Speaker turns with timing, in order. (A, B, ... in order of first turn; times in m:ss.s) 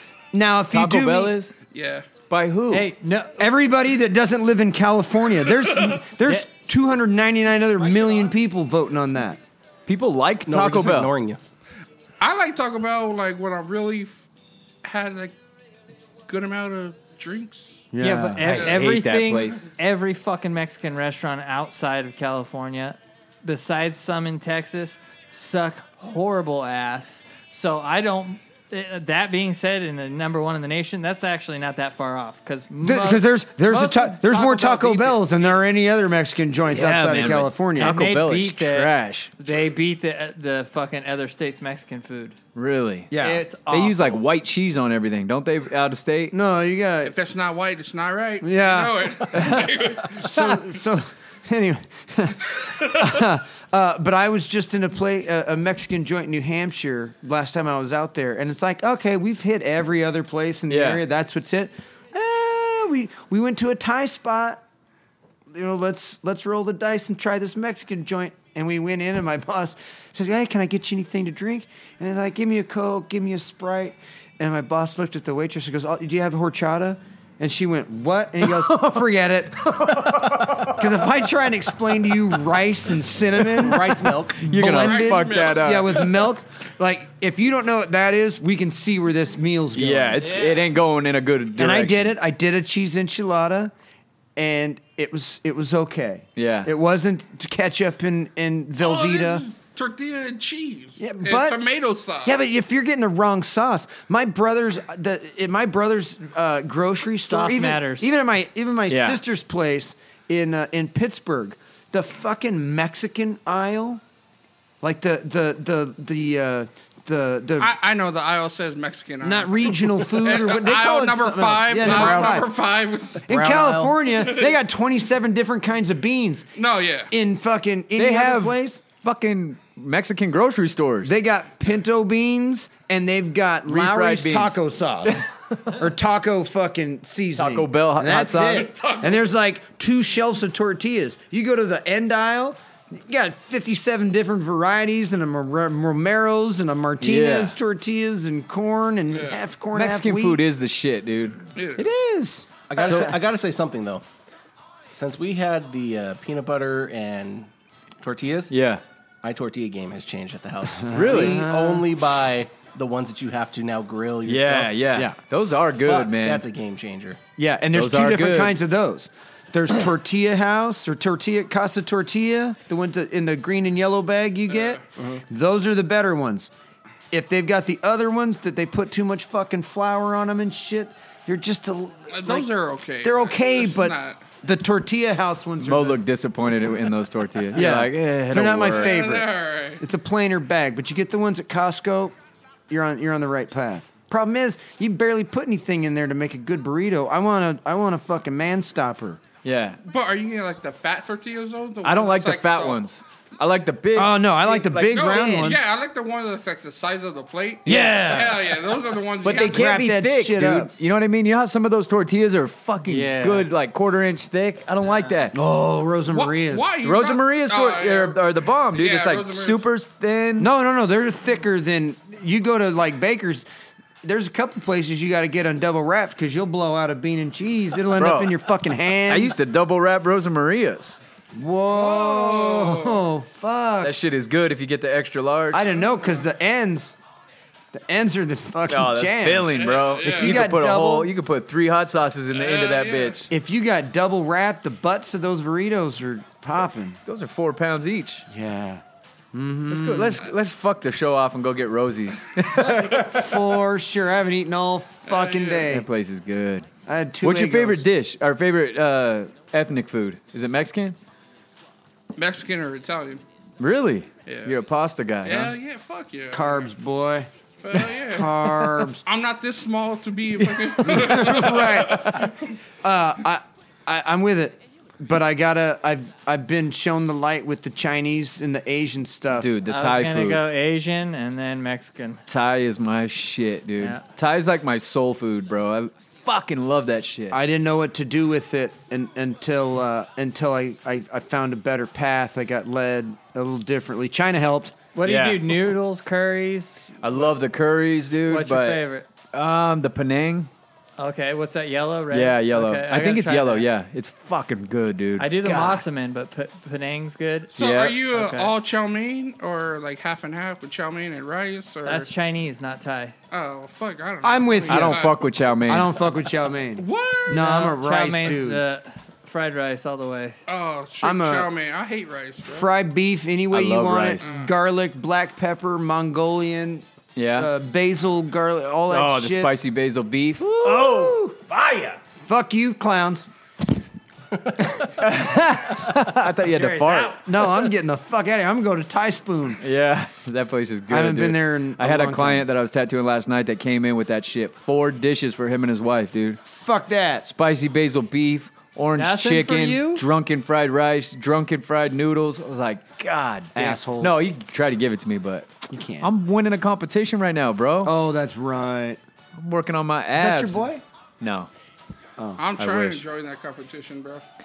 0:00.3-0:01.3 A
0:00.7-0:01.5 B
0:01.7-0:02.1 C
0:02.3-0:02.9 B
0:02.7-0:03.4 D
0:03.4-0:09.4 A
0:07.8-0:08.2 C
0:09.9-0:11.1 B
0:10.5-0:11.4 E
0:12.2-0:14.2 C
0:14.8-0:15.4 C
0:16.3-0:17.9 C
0:17.9-0:18.6 A
0:18.0-0:35.2 D
0:18.4-0:19.7 B
0:32.8-0:38.1 A
0:36.7-0:39.3 B
0:37.8-0:42.4 D
0:42.6-0:43.1 B
0:43.1-0:43.4 A
0:43.2-0:44.2 D
0:43.7-0:46.3 B
0:46.3-0:47.1 A
0:47.0-0:50.6 C
0:48.4-1:04.6 A
1:00.7-1:01.0 B
1:05.5-1:30.4 A
1:18.4-1:19.0 B
1:19.6-1:21.0 B
1:23.6-1:26.1 B
1:24.5-1:26.2 C
1:29.7-1:32.1 B
1:30.2-1:30.7 D
1:31.6-1:33.7 A
1:34.4-1:39.4 A
1:36.4-1:36.7 B
1:38.8-1:42.4 C
1:41.0-1:41.6 A
1:42.2-1:54.0 A
1:47.2-1:48.1 D
1:48.9-1:49.2 B
1:54.8-1:57.7 A
1:57.6-2:03.3 C
1:59.2-2:02.5 A
2:03.2-2:06.5 A
2:03.3-2:03.9 D
2:04.1-2:04.6 C
2:06.6-2:07.1 C
2:07.1-2:08.8 A
2:07.9-2:11.1 B
2:11.0-2:30.4 A
2:13.6-2:15.2 B
2:17.4-2:18.7 B
2:18.4-2:19.3 C
2:27.0-2:27.6 B
2:29.1-2:29.4 C
2:29.7-2:31.4 B
2:31.6-2:31.9 C
2:31.8-2:33.1 A
2:32.7-2:34.0 E
2:32.8-2:33.1 B
2:34.9-2:37.5 E
2:38.0-2:38.5 E
2:38.5-2:38.8 B
2:39.2-2:44.9 E
2:40.8-2:41.8 A
2:40.9-2:41.5 B
2:44.2-2:46.4 B
2:45.8-2:47.2 E
2:47.4-2:56.5 A
2:47.7-2:48.6 B
2:54.5-2:54.8 C
2:55.0-2:55.2 E
2:57.1-3:02.5 A
3:02.1-3:04.2 C
3:03.0-3:06.0 A
3:05.6-3:09.0 B
3:07.5-3:12.1 A
3:08.7-3:09.8 C
3:12.7-3:19.2 A
3:19.4-3:19.8 B
3:19.8-3:22.8 C
3:21.8-3:24.2 B
3:24.0-3:25.6 A
3:24.5-3:29.8 C
3:24.5-3:25.5 D
3:27.6-3:28.2 B
3:27.6-3:28.5 D
3:29.2-3:35.4 B
3:29.2-3:30.7 A
3:32.8-3:33.5 D
3:35.3-3:36.7 A
3:36.1-3:38.2 C
3:36.8-3:40.5 B
3:38.7-3:39.6 C
3:40.4-3:43.5 A
3:44.0-3:49.3 A
3:47.9-3:48.4 B
3:49.0-3:51.0 B
3:51.4-3:54.0 A
3:51.7-3:53.0 C
3:53.8-3:55.7 B
3:55.5-3:57.0 A
3:57.7-3:59.5 A
3:58.7-4:03.3 B
3:59.5-4:00.4 C
4:00.0-4:01.1 A
4:02.3-4:03.2 C
4:03.3-4:07.0 A
4:07.0-4:08.3 B
4:08.3-4:10.2 A
4:09.7-4:13.5 B
4:12.6-4:15.9 A
4:15.0-4:15.7 C
4:15.6-4:16.7 B
4:16.9-4:17.8 A
4:17.2-4:21.0 B
4:22.2-4:23.2 C
4:23.6-4:25.5 B
4:24.2-4:24.5 C
4:25.2-4:26.7 C
4:26.3-4:27.3 A
4:27.6-4:32.5 C
4:27.9-4:29.0 A
4:30.4-4:31.4 B
4:30.8-4:32.3 A
4:32.8-4:39.5 A
4:39.4-4:40.4 B
4:39.7-4:42.2 D
4:42.3-4:47.4 B
4:47.3-4:54.8 A
4:54.9-4:57.2 D
4:55.0-4:55.6 B
4:57.0-4:58.8 B
4:58.3-4:59.0 D
4:59.3-5:00.5 B
5:01.0-5:03.7 D
5:02.1-5:05.8 B
5:05.2-5:07.5 D
5:07.5-5:12.1 C
5:07.5-5:08.0 B
5:08.1-5:08.5 D
5:11.8-5:13.1 D
5:13.3-5:15.1 C
5:14.2-5:15.1 A
5:14.7-5:15.9 B
5:15.6-5:18.6 A
5:16.8-5:17.6 C
5:17.3-5:20.4 D
5:20.5-5:22.7 C
5:21.0-5:21.5 A
5:22.4-5:29.5 A
5:23.5-5:24.2 B
5:24.2-5:24.5 C
5:27.2-5:27.5 B
5:28.9-5:32.0 B
5:30.4-5:31.2 A
5:32.2-5:33.3 A
5:34.6-5:34.9 A
5:34.9-5:37.2 B
5:36.4-5:37.3 D
5:37.2-5:39.6 A
5:39.6-5:46.4 B
5:40.9-5:42.4 A
5:46.5-5:47.2 A
5:47.2-5:57.9 B
5:49.0-5:50.0 D
5:53.5-5:54.2 A
5:55.7-5:56.1 A
5:57.8-5:59.0 A
5:59.4-6:01.5 B
6:00.1-6:00.8 A
6:02.4-6:04.2 C
6:02.6-6:03.0 B